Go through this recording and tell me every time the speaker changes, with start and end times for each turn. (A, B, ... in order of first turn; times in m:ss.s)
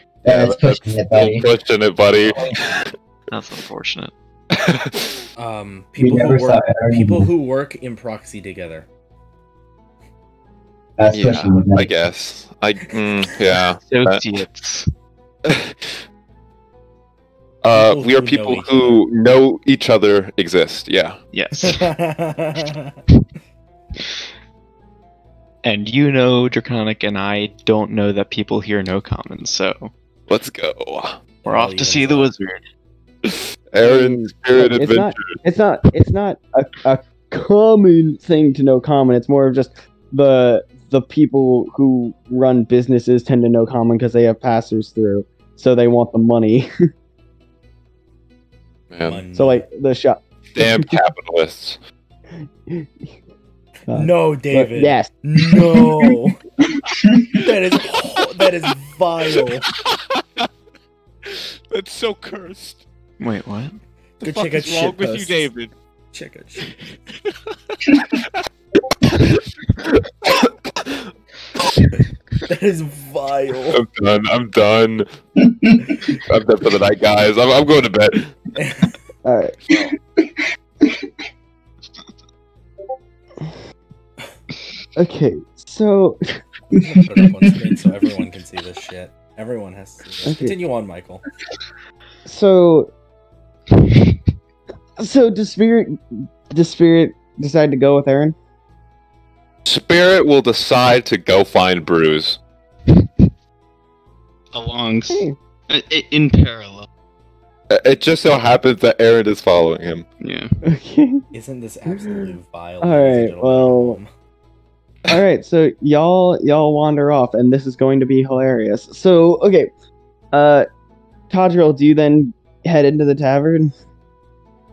0:00.2-0:02.8 A
0:00.3-0:01.5 B
0:03.3-0:04.1 C
0:04.6-0:04.9 A
0:05.4-0:08.9 D
0:06.0-0:07.3 B
0:11.0-0:11.9 B
0:11.1-0:14.3 A
0:13.8-0:14.9 C
0:17.6-0:21.2 A
0:17.7-0:19.0 D
0:21.3-0:21.9 C
0:21.6-0:23.0 D
0:25.6-0:29.9 C
0:30.3-0:31.3 A
0:31.4-0:32.3 D
0:31.4-0:32.6 C
0:33.7-0:35.4 A
0:33.8-0:46.7 E
0:48.9-0:49.3 A
0:49.0-0:49.7 D
0:49.4-0:50.9 E
0:50.6-0:51.8 A
0:53.9-0:55.8 E
0:53.9-0:56.4 D
0:57.4-0:59.7 D
0:59.8-1:00.5 F
1:01.2-1:02.8 F
1:03.2-1:03.8 C
1:04.2-1:05.5 D
1:04.2-1:05.7 F
1:06.1-1:07.0 D
1:12.5-1:13.8 D
1:13.7-1:15.1 A
1:16.3-1:18.2 A
1:18.6-1:18.9 D
1:19.2-1:19.9 E
1:25.0-1:26.4 E
1:26.8-1:31.2 D
1:30.2-1:30.6 E
1:32.2-1:32.9 E
1:35.0-1:38.4 E
1:39.6-1:42.4 A
1:44.5-1:46.9 C
1:45.1-1:45.4 E
1:47.7-1:50.1 A
1:50.2-1:50.6 C
1:50.6-1:51.2 E
1:51.3-1:54.1 D
1:51.9-1:54.0 E
1:55.1-1:59.7 E
2:00.3-2:00.7 E
2:01.3-2:03.7 E